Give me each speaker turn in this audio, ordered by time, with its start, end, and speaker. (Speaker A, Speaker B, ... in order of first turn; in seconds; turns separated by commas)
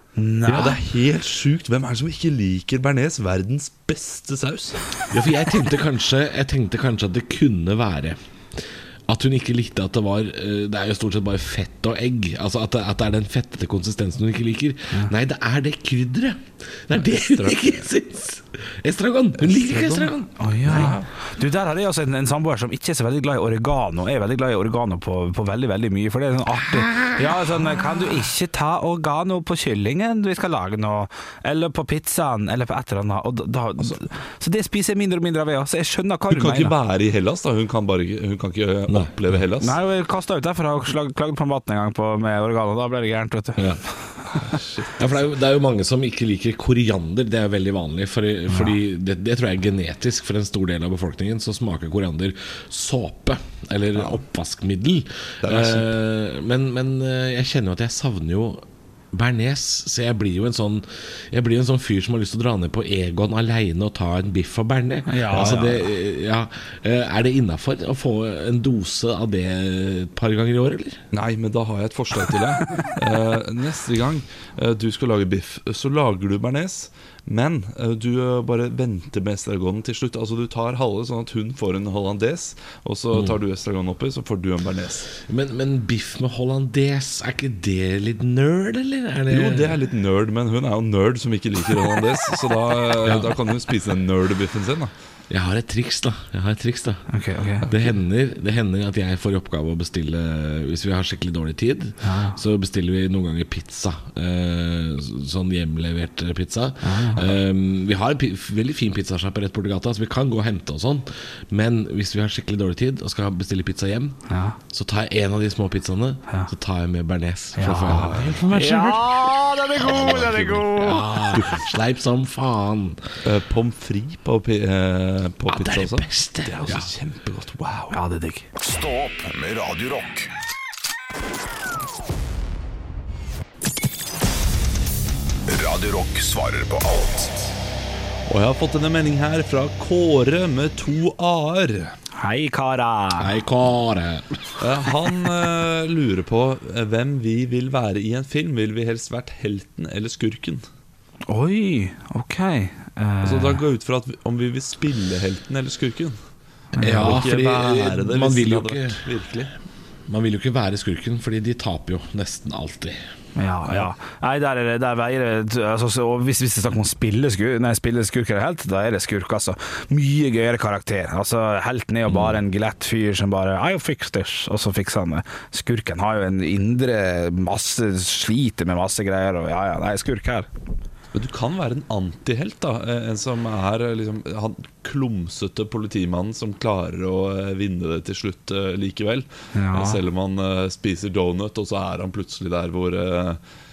Speaker A: 0.2-0.8, Speaker B: 0.5-5.0, Speaker C: 5.1-20.4, Speaker B: 17.0-17.7, Speaker B: 19.4-20.1, Speaker A: 20.4-36.7, Speaker B: 20.6-21.1, Speaker C: 26.7-27.4, Speaker B: 36.3-39.8, Speaker A: 39.6-44.6, Speaker C: 43.6-43.8, Speaker B: 44.5-44.9, Speaker C: 45.0-71.0, Speaker A: 48.5-48.8, Speaker B: 55.4-55.9, Speaker A: 65.1-65.6, Speaker B: 65.3-65.8, Speaker B: 71.1-85.1, Speaker C: 85.2-89.8, Speaker B: 89.3-94.9, Speaker C: 93.0-93.4, Speaker C: 95.3-97.0, Speaker A: 97.1-97.7, Speaker B: 97.6-97.9, Speaker C: 97.7-119.1, Speaker A: 102.0-102.4, Speaker A: 106.8-107.3, Speaker A: 114.3-114.6, Speaker A: 117.6-121.3, Speaker B: 117.8-118.3, Speaker C: 119.8-123.0, Speaker B: 121.3-121.6, Speaker B: 123.2-128.0, Speaker C: 125.5-126.9, Speaker A: 127.9-128.5, Speaker D: 128.6-130.3, Speaker D: 135.5-137.5, Speaker B: 138.3-141.9, Speaker A: 142.2-143.3, Speaker C: 143.2-144.3, Speaker B: 144.6-150.6, Speaker A: 151.3-153.6, Speaker B: 153.2-156.2, Speaker B: 156.8-159.5, Speaker A: 156.8-157.2, Speaker C: 156.8-159.0, Speaker C: 160.1-163.0, Speaker A: 163.4-180.5, Speaker C: 172.1-172.4, Speaker B: 181.1-193.4, Speaker A: 189.6-190.0